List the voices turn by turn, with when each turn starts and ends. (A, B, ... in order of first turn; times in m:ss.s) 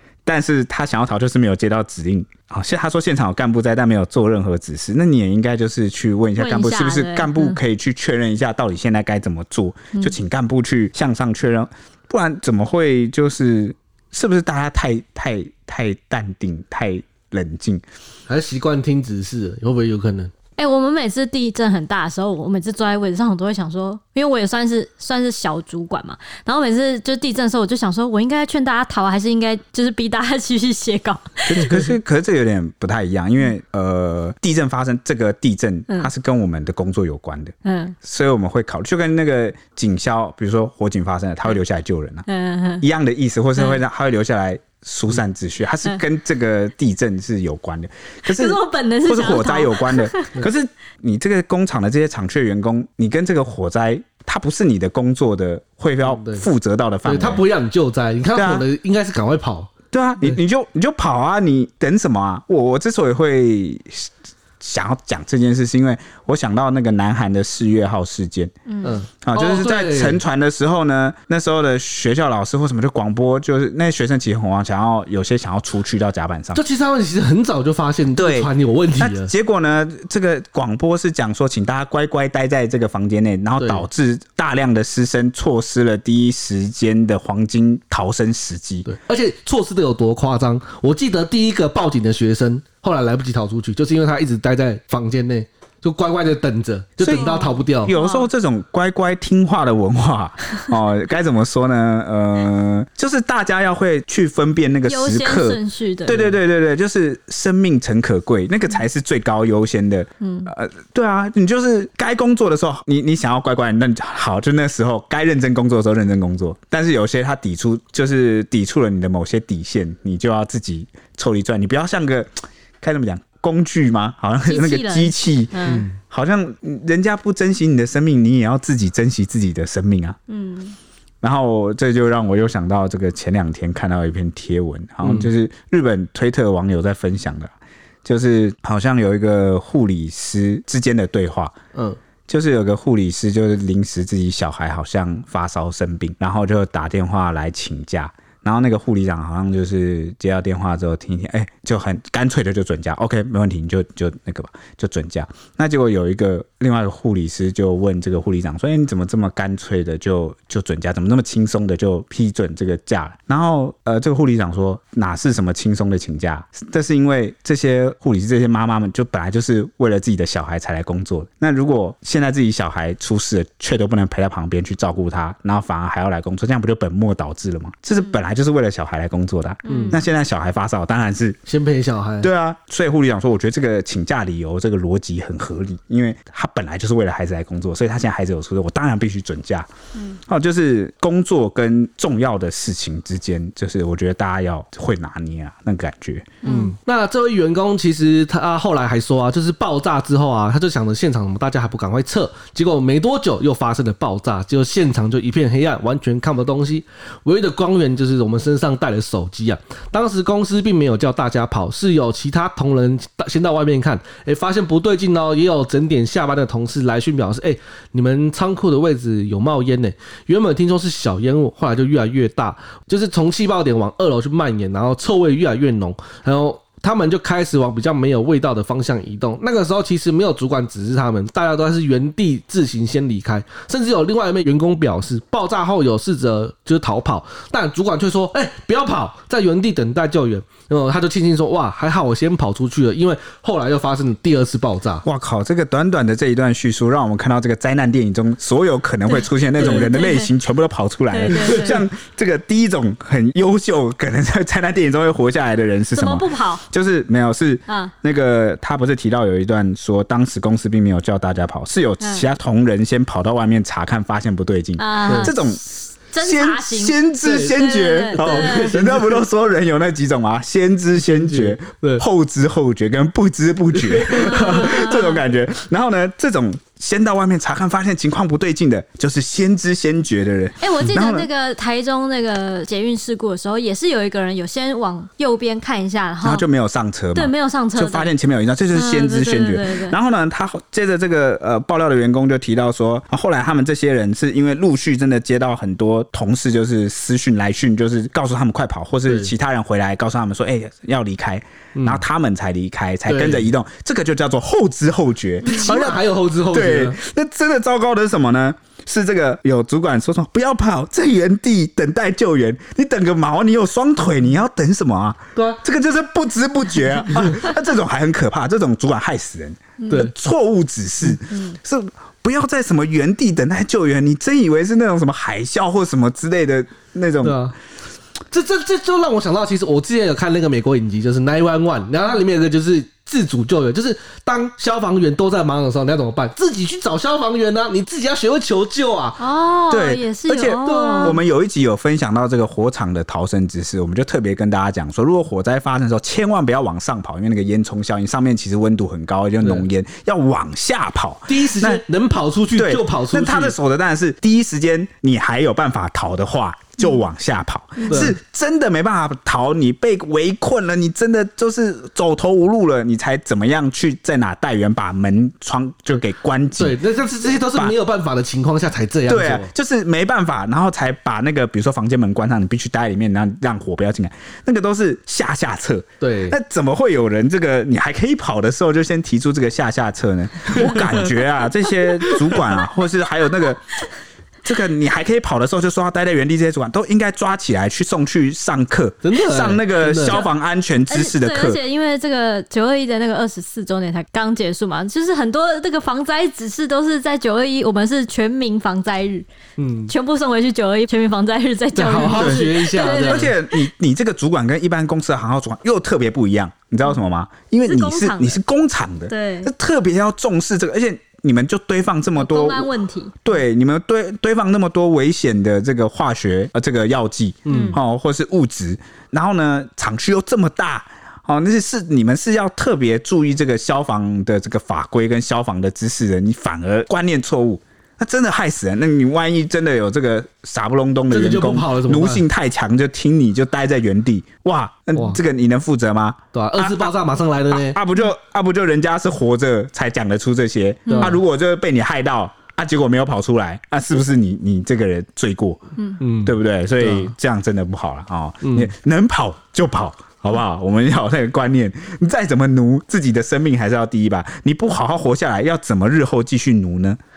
0:00.3-0:17.8 A
0:06.4-0:07.6 B
0:18.3-0:20.3 C
0:20.6-0:31.9 B
0:31.5-0:42.3 A
0:37.6-0:38.0 B
0:42.3-0:42.9 B
0:42.8-0:57.4 A
0:48.3-0:50.4 B
0:56.0-0:56.4 C
0:57.0-0:59.7 C
0:58.4-0:58.6 A
0:59.9-1:08.5 A
1:08.7-1:09.0 B
1:08.8-1:10.2 C
1:09.2-1:16.6 A
1:16.6-1:19.3 C
1:18.2-1:28.9 A
1:23.6-1:23.8 C
1:28.9-1:38.0 C
1:37.0-2:10.2 A
1:37.1-1:38.3 B
1:44.9-1:46.4 B
1:50.2-1:50.5 B
2:04.5-2:05.8 B
2:05.7-2:06.0 C
2:10.3-2:10.8 B
2:11.2-2:17.5 A
2:15.0-2:15.3 C
2:18.0-2:21.6 A
2:21.7-2:22.0 C
2:22.3-3:01.4 A
2:59.7-3:00.0 B
2:59.7-3:00.0 C
3:01.5-3:02.3 C
3:02.2-3:09.7 A
3:10.3-3:16.3 A
3:16.4-3:16.8 B
3:16.4-4:05.0 C
4:05.0-4:25.7 A
4:09.1-4:10.3 B
4:11.1-4:11.8 B
4:15.9-4:16.6 B
4:17.7-4:17.9 B
4:22.0-4:22.3 B
4:24.8-4:28.8 B
4:25.1-4:25.3 C
4:26.2-4:41.3 A
4:27.2-4:27.6 C
4:28.1-4:29.2 C
4:31.0-4:32.0 C
4:33.8-4:35.0 C
4:34.3-4:35.2 B
4:40.6-4:46.4 B
4:46.2-5:27.4 A
4:47.2-4:48.1 B
4:48.7-4:50.0 B
4:59.1-4:59.3 C
5:01.8-5:02.0 C
5:03.1-5:03.5 C
5:05.4-5:07.0 C
5:15.4-5:15.6 C
5:19.8-5:20.1 B
5:21.3-5:21.6 B
5:27.2-5:27.6 C
5:28.3-5:39.2 C
5:39.2-5:41.2 B
5:39.7-5:51.8 A
5:40.6-5:41.2 C
5:49.4-5:49.7 C
5:51.3-5:53.6 C
5:52.6-6:06.8 A
5:57.8-5:58.1 B
5:57.9-5:58.2 C
6:06.6-6:09.5 C
6:07.4-6:07.8 A
6:09.1-6:23.8 A
6:16.0-6:16.4 C
6:20.5-6:21.0 C
6:22.0-6:22.4 C
6:24.4-6:31.6 A
6:29.0-6:30.2 C
6:30.0-6:30.3 B
6:30.9-6:39.3 B
6:39.6-6:39.9 C
6:39.9-6:43.6 B
6:41.8-6:43.3 C
6:42.0-6:52.7 A
6:47.6-6:48.4 B
6:49.1-6:49.5 B
6:52.2-6:53.2 B
6:53.2-7:16.9 A
6:57.5-6:57.8 C
6:57.5-6:57.8 B
7:11.1-7:12.2 C
7:16.3-7:17.8 C
7:17.5-7:25.6 A
7:20.9-7:21.2 B
7:20.9-7:21.2 C
7:26.0-7:27.1 C
7:26.2-7:37.0 A
7:28.4-7:28.7 C